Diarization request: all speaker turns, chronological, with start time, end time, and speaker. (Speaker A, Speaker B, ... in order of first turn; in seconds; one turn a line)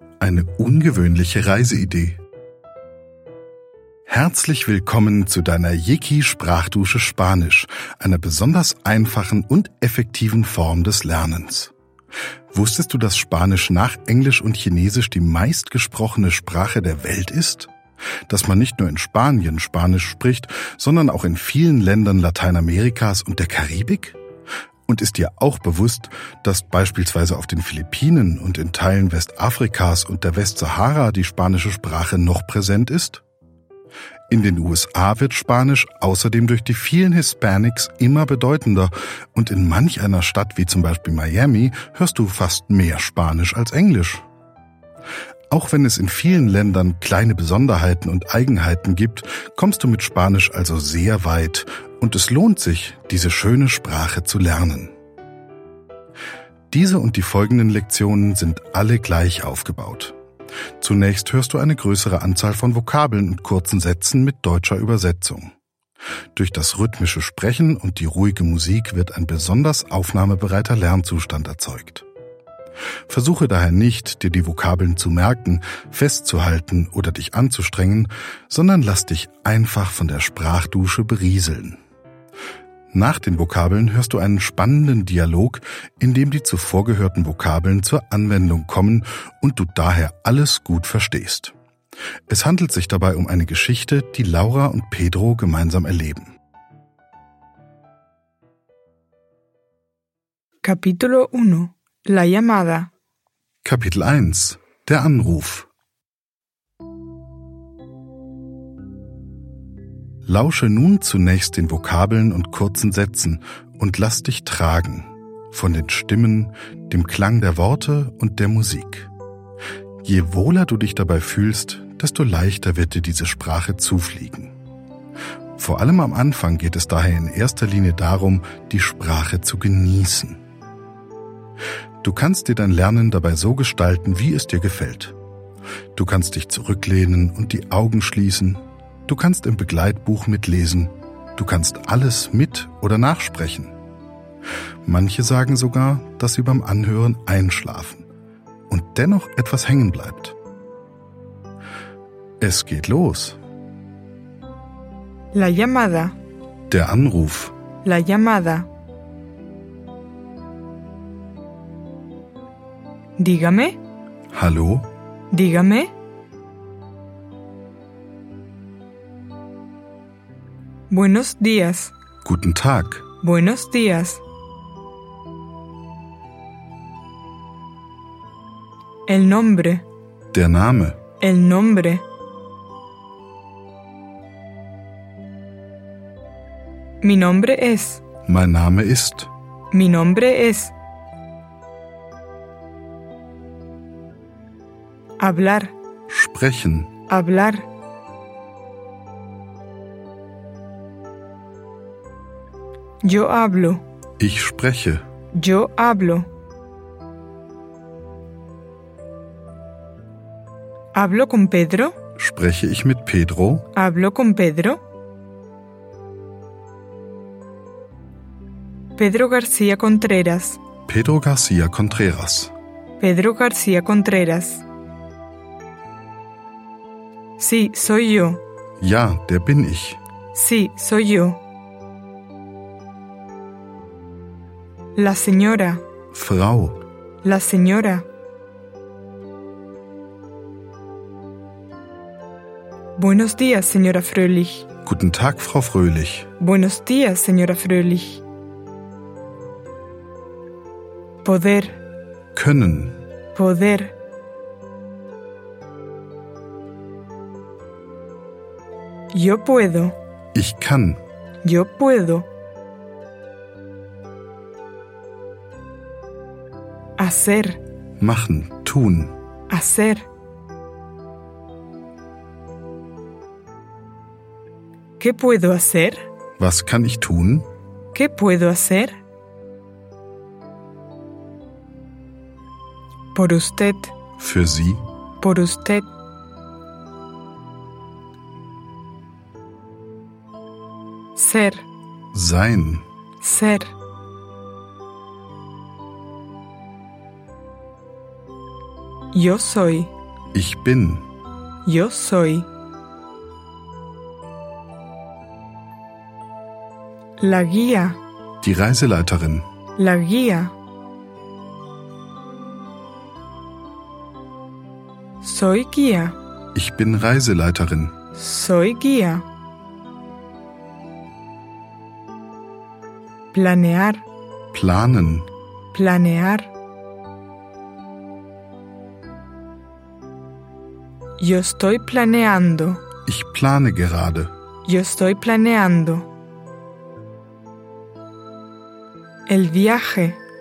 Speaker A: 0.2-2.2
Speaker A: 4.1-11.7
Speaker A: 12.5-17.7
Speaker A: 18.3-24.2
Speaker A: 24.9-33.2
Speaker A: 34.3-44.2
Speaker A: 45.5-54.9
Speaker A: 56.7-60.1
Speaker A: 60.8-65.5
Speaker A: 66.3-72.0
Speaker A: 73.1-81.8
Speaker A: 82.9-91.5
Speaker A: 92.3-96.4
Speaker B: 100.6-102.9
Speaker A: 103.6-105.7
Speaker A: 110.3-119.1
Speaker A: 120.0-124.5
Speaker A: 125.6-130.4
Speaker A: 132.0-135.2
Speaker A: 136.0-143.8
Speaker A: 144.8-148.1
Speaker A: 148.7-150.3
Speaker A: 152.4-153.4
Speaker B: 155.3-156.1
Speaker A: 156.7-157.6
Speaker B: 157.8-158.7
Speaker B: 163.2-163.8
Speaker A: 164.3-164.9
Speaker B: 165.3-165.9
Speaker B: 170.9-171.9
Speaker A: 172.2-173.1
Speaker B: 173.2-174.2
Speaker B: 179.1-179.8
Speaker A: 180.3-181.0
Speaker B: 181.2-182.1
Speaker B: 187.0-188.0
Speaker A: 188.2-189.3
Speaker B: 189.7-190.7
Speaker B: 195.2-195.7
Speaker A: 196.1-196.9
Speaker B: 197.1-197.7
Speaker B: 203.0-203.8
Speaker A: 204.2-205.0
Speaker B: 205.3-206.3
Speaker B: 210.9-211.9
Speaker A: 212.2-213.7
Speaker B: 213.7-214.8
Speaker B: 219.0-220.6
Speaker A: 220.9-222.5
Speaker B: 223.0-224.6
Speaker B: 227.4-228.4
Speaker A: 228.8-230.0
Speaker B: 230.3-231.4
Speaker B: 235.0-235.8
Speaker A: 236.1-236.8
Speaker B: 237.2-238.1
Speaker B: 243.0-244.7
Speaker A: 244.8-246.3
Speaker B: 246.4-248.2
Speaker B: 251.2-251.8
Speaker A: 252.3-253.0
Speaker B: 253.3-253.9
Speaker B: 259.1-259.9
Speaker A: 260.3-261.0
Speaker B: 261.4-262.3
Speaker B: 267.0-267.6
Speaker A: 268.0-269.1
Speaker B: 269.5-270.1
Speaker B: 275.0-276.1
Speaker A: 276.4-277.5
Speaker B: 277.9-279.0
Speaker B: 283.1-283.9
Speaker A: 284.2-284.9
Speaker B: 285.2-285.9
Speaker B: 291.2-291.7
Speaker A: 292.1-292.9
Speaker B: 293.2-293.7
Speaker B: 299.1-299.9
Speaker A: 300.3-301.1
Speaker B: 301.6-302.5
Speaker B: 307.2-308.0
Speaker A: 308.4-309.5
Speaker B: 309.8-310.5
Speaker B: 315.2-316.2
Speaker A: 316.6-317.9
Speaker B: 318.2-319.2
Speaker B: 323.3-324.0
Speaker A: 324.5-325.3
Speaker B: 325.7-326.5
Speaker B: 331.2-332.8
Speaker A: 333.1-334.3
Speaker B: 334.7-336.1
Speaker B: 339.3-340.2